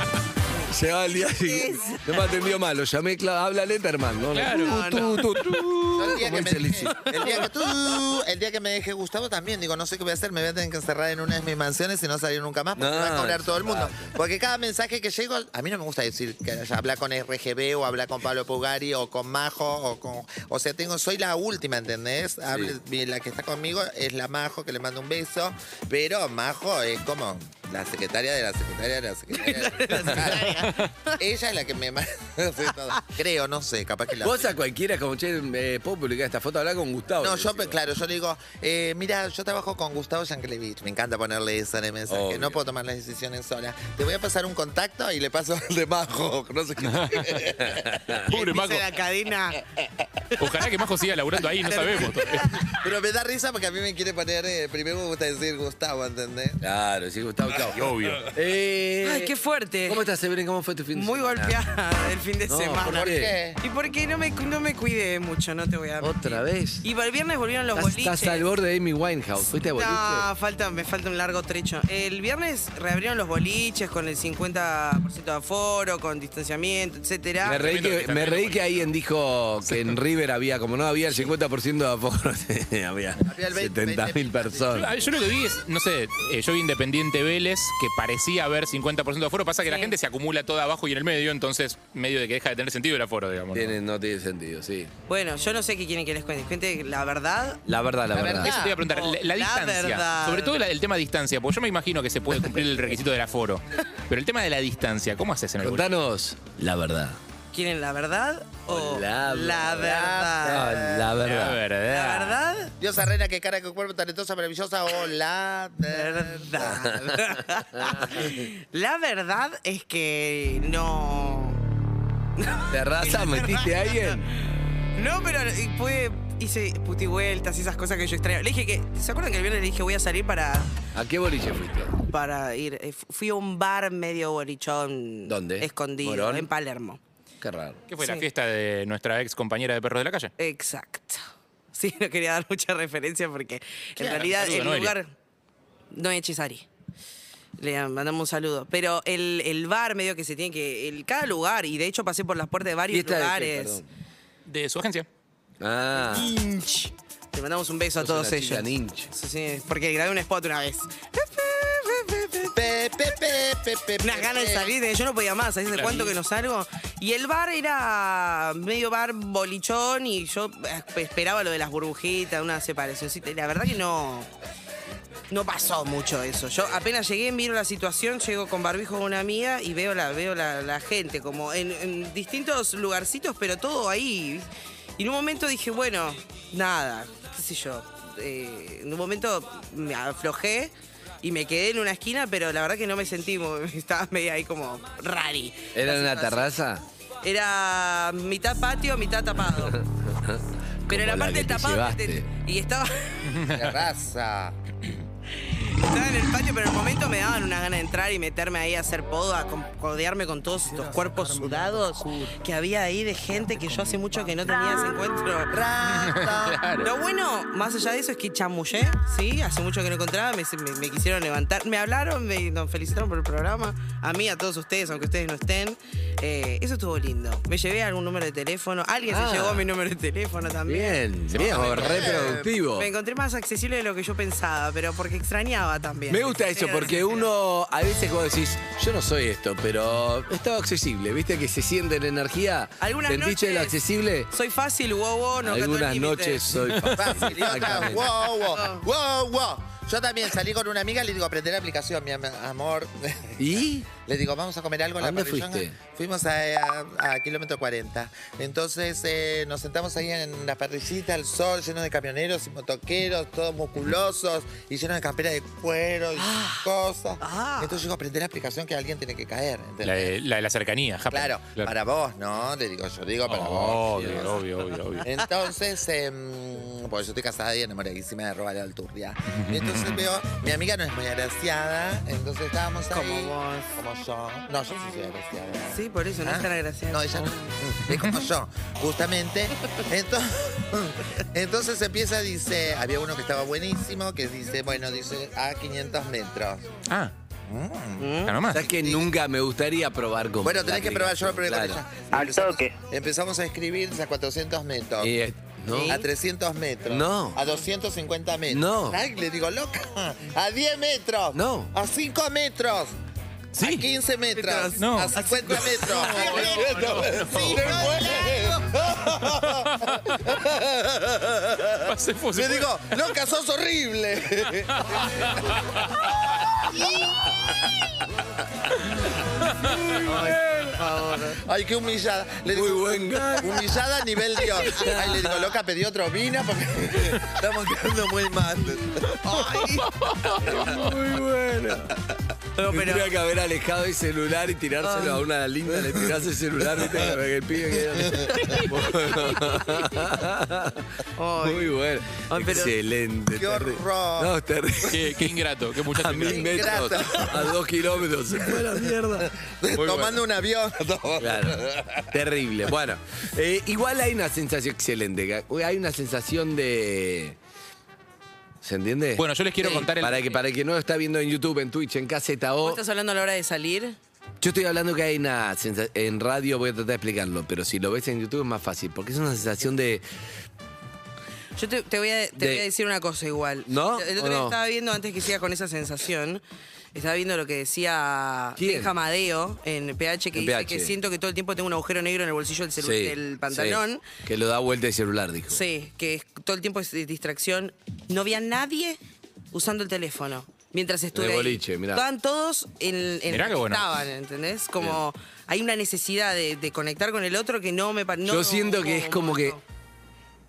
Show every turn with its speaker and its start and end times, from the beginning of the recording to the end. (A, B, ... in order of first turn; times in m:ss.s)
0:00.6-0:07.3 A
0:01.4-0:02.2 B
0:04.3-0:04.9 C
0:04.5-0:05.2 B
0:05.9-0:34.5 D
0:12.8-0:14.2 A
0:22.5-0:22.8 A
0:29.3-0:31.2 B
0:34.2-0:37.8 A
0:37.2-0:48.0 D
0:42.1-0:42.6 A
0:46.9-0:47.2 C
0:47.4-0:48.3 A
0:48.3-0:49.6 B
0:48.3-0:48.8 C
0:50.4-0:52.6 C
0:51.6-0:52.6 B
0:52.7-0:56.6 D
0:56.6-0:59.3 A
0:57.7-0:58.2 C
0:59.0-1:00.0 B
0:59.9-1:01.6 A
1:00.9-1:03.1 B
1:02.5-1:03.4 A
1:02.9-1:03.6 D
1:03.6-1:08.4 B
1:06.0-1:06.8 A
1:07.7-1:10.3 A
1:09.8-1:17.6 B
1:17.4-1:24.9 A
1:17.4-1:18.8 C
1:23.2-1:25.1 D
1:24.7-1:33.8 C
1:29.6-1:29.9 B
1:33.5-1:34.9 A
1:35.1-1:37.6 B
1:37.6-1:38.7 A
1:38.1-1:38.8 D
1:38.4-1:45.9 C
1:38.9-1:40.6 B
1:45.6-1:47.2 A
1:47.5-1:50.6 B
1:48.7-1:51.6 A
1:49.7-1:51.1 D
1:51.2-1:52.4 C
1:51.9-1:52.7 B
1:52.8-1:57.0 D
1:55.9-2:01.6 B
1:56.6-1:58.1 A
2:02.4-2:10.7 B
2:02.7-2:04.2 A
2:10.9-2:11.9 A
2:12.0-2:17.0 B
2:15.2-2:16.5 A
2:17.4-2:17.8 A
2:17.9-2:20.3 C
2:18.0-2:18.2 B
2:20.4-2:21.2 B
2:21.7-2:25.1 B
2:24.0-2:24.3 D
2:24.3-2:24.9 C
2:25.9-2:26.7 B
2:27.6-2:33.8 B
2:32.9-2:33.9 A
2:34.5-2:35.1 C
2:35.6-2:36.3 A
2:36.0-2:42.6 B
2:38.0-2:39.1 A
2:42.5-2:44.7 D
2:44.0-2:54.3 B
2:45.7-2:46.1 C
2:55.3-3:16.5 B
3:15.7-3:16.8 A
3:17.2-3:19.8 B
3:19.6-3:22.3 A
3:20.9-3:23.4 B
3:23.3-3:23.6 C
3:23.5-3:24.6 D
3:25.3-3:35.5 B
3:30.7-3:32.3 D
3:33.6-3:34.4 D
3:35.5-3:36.6 D
3:35.8-3:36.9 C
3:36.8-3:51.0 B
3:49.1-3:49.7 A
3:50.7-3:52.9 A
3:51.3-3:51.7 C
3:51.4-3:52.5 D
3:51.7-3:57.2 B
3:56.1-4:04.3 A
4:02.8-4:03.8 B
4:04.3-4:06.6 B
4:05.4-4:08.3 A
4:06.9-4:30.1 D
4:08.5-4:08.8 B
4:13.4-4:13.9 A
4:15.0-4:15.8 A
4:27.2-4:27.8 B
4:29.8-4:31.7 C
4:31.1-4:34.4 D
4:33.2-4:35.1 C
4:33.9-4:34.4 A
4:35.1-4:56.7 D
4:39.4-4:40.1 C
4:42.9-4:43.8 B
4:45.7-4:47.4 B
4:47.9-4:48.3 C
4:57.5-4:59.1 D
4:58.0-4:58.4 B
4:58.2-4:58.7 C
4:58.5-5:01.8 A
5:00.4-5:05.1 D
5:05.0-5:06.0 A
5:05.7-5:06.1 B
5:05.9-5:12.9 D
5:06.9-5:07.4 A
5:08.5-5:09.0 A
5:11.3-5:11.7 A
5:13.6-5:13.9 C
5:13.6-5:25.6 D
5:14.3-5:16.7 B
5:14.8-5:17.9 C
5:16.3-5:17.9 A
5:19.5-5:20.2 C
5:21.8-5:22.8 C
5:24.8-5:25.8 C
5:26.7-5:27.6 D
5:29.6-5:30.4 A
5:30.1-5:31.4 B
5:31.4-5:39.6 D
5:32.5-5:33.8 A
5:34.6-5:35.4 A
5:39.2-5:40.0 B
5:40.0-5:40.3 C
5:40.4-5:42.2 A
5:42.6-5:43.1 B
5:42.7-6:00.2 A
5:44.8-5:45.2 B
5:48.0-5:48.4 D
5:51.2-5:51.7 B
5:52.3-5:52.7 B
5:53.3-5:54.3 D
5:54.9-5:56.9 C
5:56.3-5:57.6 D
5:58.4-6:02.1 D
6:01.2-6:07.4 A
6:08.6-6:12.8 A
6:09.2-6:10.3 C
6:12.6-6:14.0 B
6:14.4-6:20.0 A
6:21.6-6:26.4 B
6:22.4-6:22.7 A
6:23.7-6:24.6 A
6:26.9-6:34.0 B
6:28.6-6:28.9 A
6:30.3-6:31.0 A
6:32.8-6:35.6 A
6:35.5-6:39.0 B
6:39.5-6:49.6 B
6:41.1-6:42.0 A
6:43.3-6:43.9 C
6:48.2-6:49.6 A